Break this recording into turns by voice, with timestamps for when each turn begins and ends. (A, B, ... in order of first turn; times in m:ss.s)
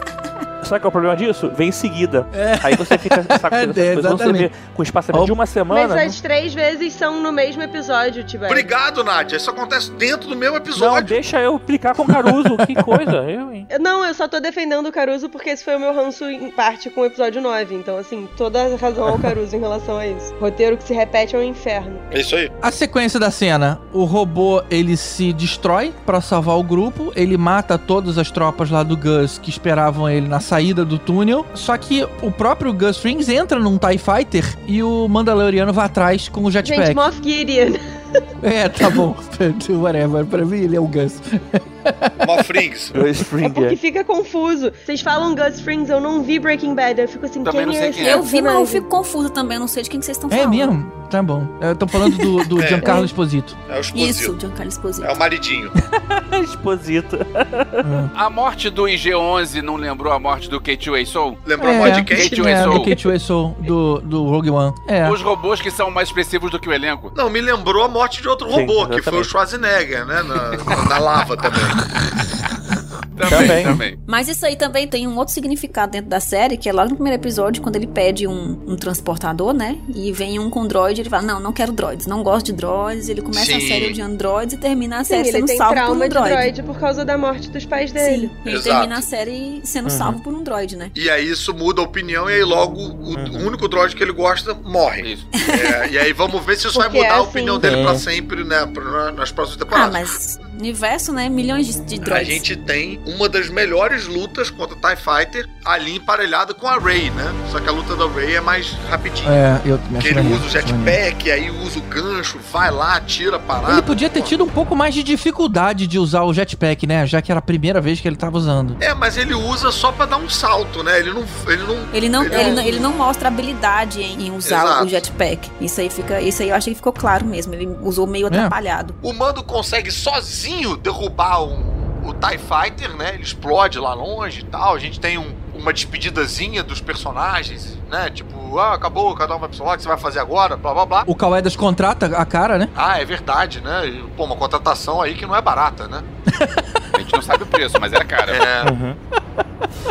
0:00.6-0:06.2 A
0:02.3-0:04.5 B
0:05.7-0:08.7 C
0:08.5-0:11.2 D
0:10.8-0:13.7 A
0:12.1-0:13.1 B
0:13.7-0:22.0 C
0:22.1-0:22.5 D
0:22.6-0:37.0 B
0:36.6-0:38.2 C
0:38.4-0:42.5 B
0:42.2-0:43.0 D
0:42.9-0:43.8 A
0:43.4-0:48.9 C
0:47.4-0:48.2 E
0:48.0-0:50.7 F
0:50.3-0:53.6 B
0:52.6-0:53.0 D
0:52.8-0:53.1 C
0:53.7-0:54.4 D
0:53.9-0:55.2 F
0:55.0-0:55.7 D
0:55.9-0:57.8 A
0:57.8-0:58.1 B
0:58.1-1:03.0 E
1:01.4-1:02.8 D
1:01.6-1:05.2 B
1:05.0-1:07.1 E
1:07.1-1:11.8 D
1:08.5-1:09.3 A
1:13.2-1:14.0 E
1:13.3-1:13.8 A
1:13.3-1:13.7 D
1:14.1-1:26.5 F
1:23.3-1:24.0 D
1:25.1-1:28.4 C
1:28.0-1:31.0 F
1:28.5-1:29.1 D
1:29.9-1:30.2 A
1:31.0-1:40.2 D
1:33.2-1:33.5 A
1:35.0-1:35.3 E
1:35.3-1:35.8 F
1:36.7-1:37.8 C
1:37.6-1:38.0 A
1:39.7-1:42.4 F
1:42.0-1:49.4 D
1:49.2-1:51.0 B
1:50.0-1:54.3 D
1:53.6-1:58.8 B
1:58.8-2:02.7 D
2:01.9-2:09.0 F
2:02.3-2:02.9 C
2:04.4-2:05.0 D
2:08.3-2:08.6 B
2:09.0-2:21.1 D
2:21.1-2:22.7 B
2:22.8-2:26.1 D
2:26.3-2:26.9 B
2:26.9-2:28.4 E
2:28.3-2:28.7 D
2:28.6-2:29.0 A